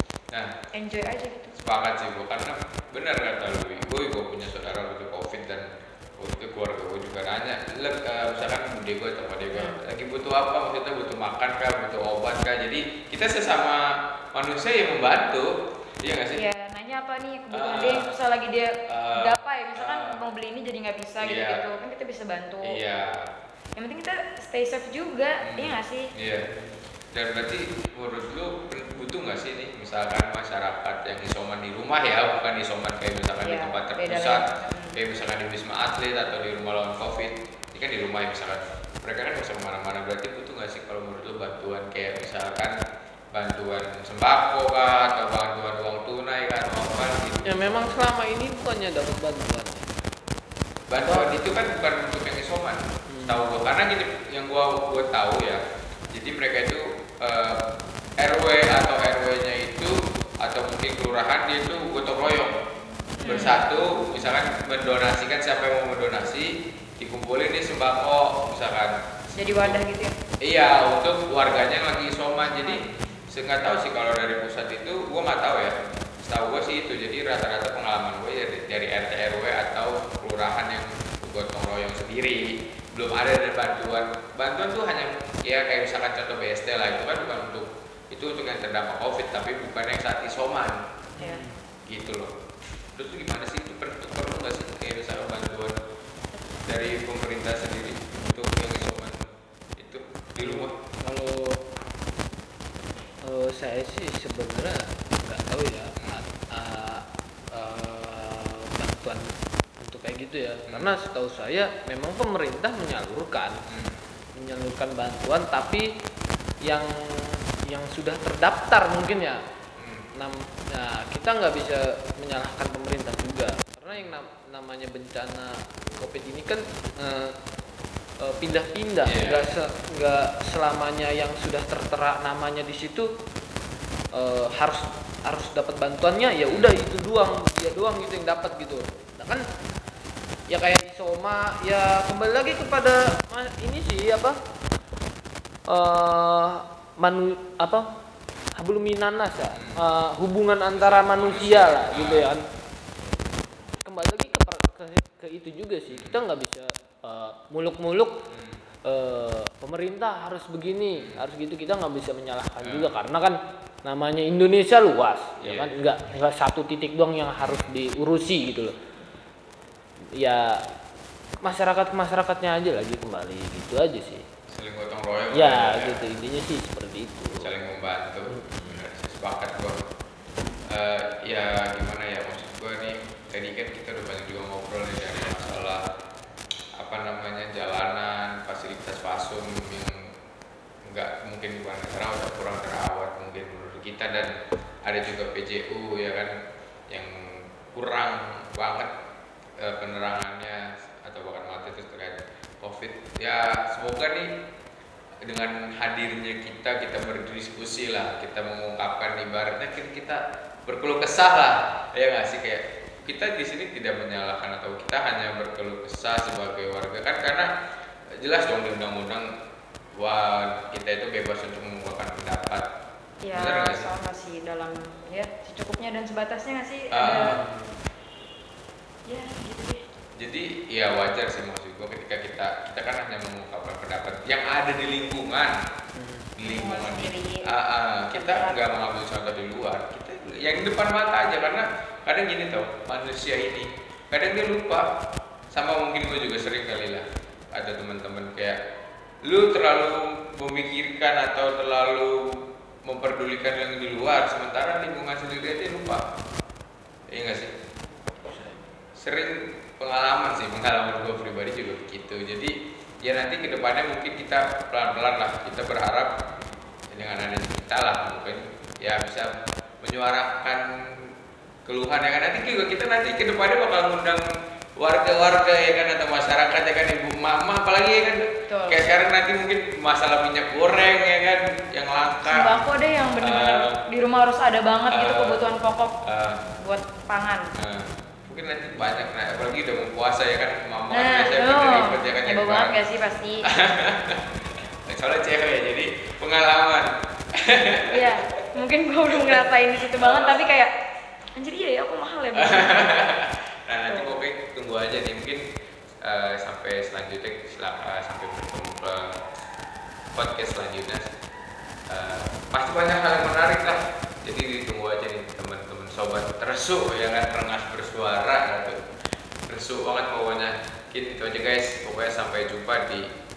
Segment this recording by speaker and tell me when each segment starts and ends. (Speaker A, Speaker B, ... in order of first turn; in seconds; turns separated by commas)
Speaker A: 0.7-1.6, Speaker B: 1.6-16.4, Speaker A: 16.4-22.8, Speaker B: 17.5-18.1, Speaker B: 18.9-20.3, Speaker B: 21.2-21.6, Speaker B: 22.6-23.3, Speaker A: 23.8-26.1, Speaker B: 25.4-26.5, Speaker B: 27.1-42.8, Speaker A: 33.4-35.0, Speaker B: 43.3-48.0, Speaker C: 47.4-49.9, Speaker B: 50.9-57.6, Speaker C: 51.0-51.4, Speaker C: 53.1-53.5, Speaker B: 58.2-62.6, Speaker C: 63.2-63.5, Speaker A: 63.2-63.6, Speaker B: 63.2-69.8, Speaker A: 69.4-70.2, Speaker B: 70.4-90.8, Speaker C: 91.2-91.6, Speaker B: 91.9-92.3, Speaker B: 93.0-95.8, Speaker B: 96.7-100.8, Speaker C: 100.4-101.6, Speaker C: 103.2-113.6, Speaker B: 106.0-106.3, Speaker B: 110.7-110.9, Speaker B: 113.7-114.0, Speaker C: 114.3-115.9, Speaker C: 116.6-119.4, Speaker B: 119.8-120.1, Speaker C: 120.1-127.4, Speaker C: 128.2-133.1, Speaker B: 129.1-129.5, Speaker C: 134.1-139.4, Speaker B: 136.4-136.7, Speaker C: 140.5-144.4, Speaker C: 145.7-147.9, Speaker C: 148.6-152.4, Speaker B: 149.5-149.8, Speaker B: 150.7-152.3, Speaker C: 153.8-158.2, Speaker B: 155.9-156.2, Speaker B: 158.3-158.6, Speaker C: 158.8-168.8, Speaker B: 160.9-161.2, Speaker B: 162.6-162.9, Speaker B: 165.4-165.8, Speaker B: 167.4-167.8, Speaker C: 170.1-170.6, Speaker C: 171.4-174.3, Speaker B: 174.5-176.1, Speaker C: 175.3-177.5, Speaker B: 177.4-179.9, Speaker C: 178.3-178.8, Speaker B: 180.7-185.9, Speaker B: 186.8-190.1, Speaker B: 190.9-194.3, Speaker B: 194.8-196.3, Speaker B: 196.9-198.9, Speaker B: 199.6-204.3, Speaker B: 205.3-217.5, Speaker B: 218.2-219.3, Speaker B: 220.0-222.7, Speaker A: 223.2-227.4, Speaker B: 223.4-223.9, Speaker B: 226.9-227.4, Speaker C: 227.2-227.8, Speaker A: 229.1-229.8, Speaker B: 230.2-235.6, Speaker C: 235.9-236.3, Speaker B: 236.4-244.9, Speaker A: 236.4-237.5, Speaker A: 238.1-238.6, Speaker B: 245.5-248.6, Speaker B: 249.2-256.0, Speaker B: 257.1-257.5, Speaker C: 258.1-258.7, Speaker B: 259.0-266.1, Speaker B: 266.9-271.1, Speaker B: 271.7-282.6, Speaker A: 278.5-278.8, Speaker A: 282.3-285.9, Speaker B: 283.2-283.8, Speaker B: 284.9-285.4, Speaker B: 286.0-286.4, Speaker A: 286.6-287.5, Speaker B: 287.6-292.8, Speaker A: 290.9-293.4, Speaker B: 293.4-298.5, Speaker A: 297.9-300.7, Speaker B: 299.1-300.4, Speaker A: 301.4-303.1, Speaker B: 302.4-305.4, Speaker A: 303.9-304.2, Speaker B: 306.0-309.2, Speaker B: 310.1-311.1, Speaker B: 311.9-318.9, Speaker B: 319.5-323.1